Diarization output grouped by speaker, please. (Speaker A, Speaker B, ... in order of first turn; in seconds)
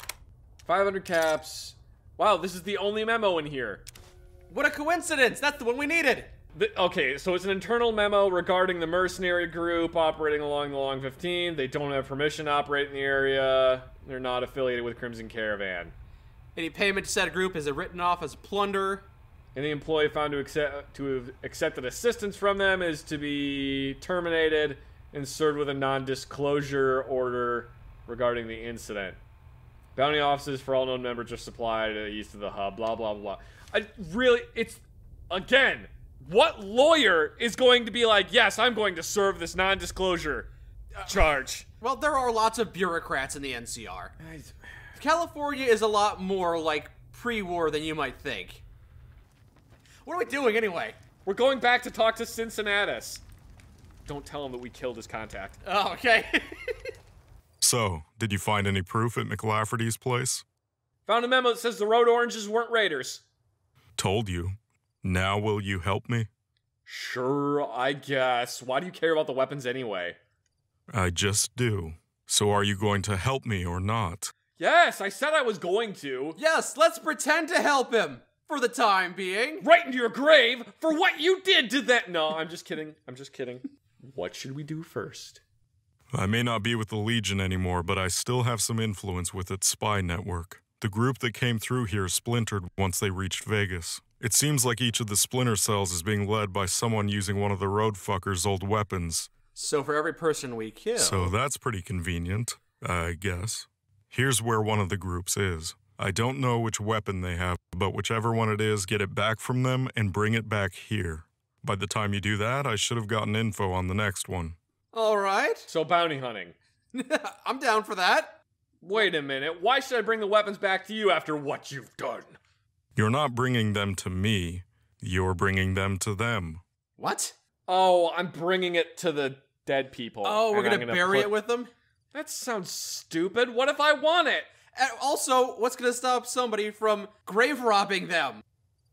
Speaker A: 0.7-3.8, 6.5-15.9, 19.6-29.2, 29.9-40.5, 41.0-41.7, 44.2-44.5, 51.2-53.2, 54.1-55.6, 61.1-63.2, 66.9-70.2, 74.6-76.4, 79.6-85.4, 115.7-116.5, 118.8-122.4, 127.7-131.3, 132.1-134.5
Speaker B: 4.5-6.3, 16.6-19.1, 41.8-44.1, 45.0-48.6, 50.0-51.0, 55.6-56.9, 76.4-79.7, 99.5-101.3, 114.9-115.7, 116.9-118.4, 127.0-127.3, 130.2-131.7, 134.8-138.4
Speaker C: 57.6-60.4, 64.0-66.3, 70.9-74.3, 86.1-99.3, 101.0-114.6, 123.0-126.6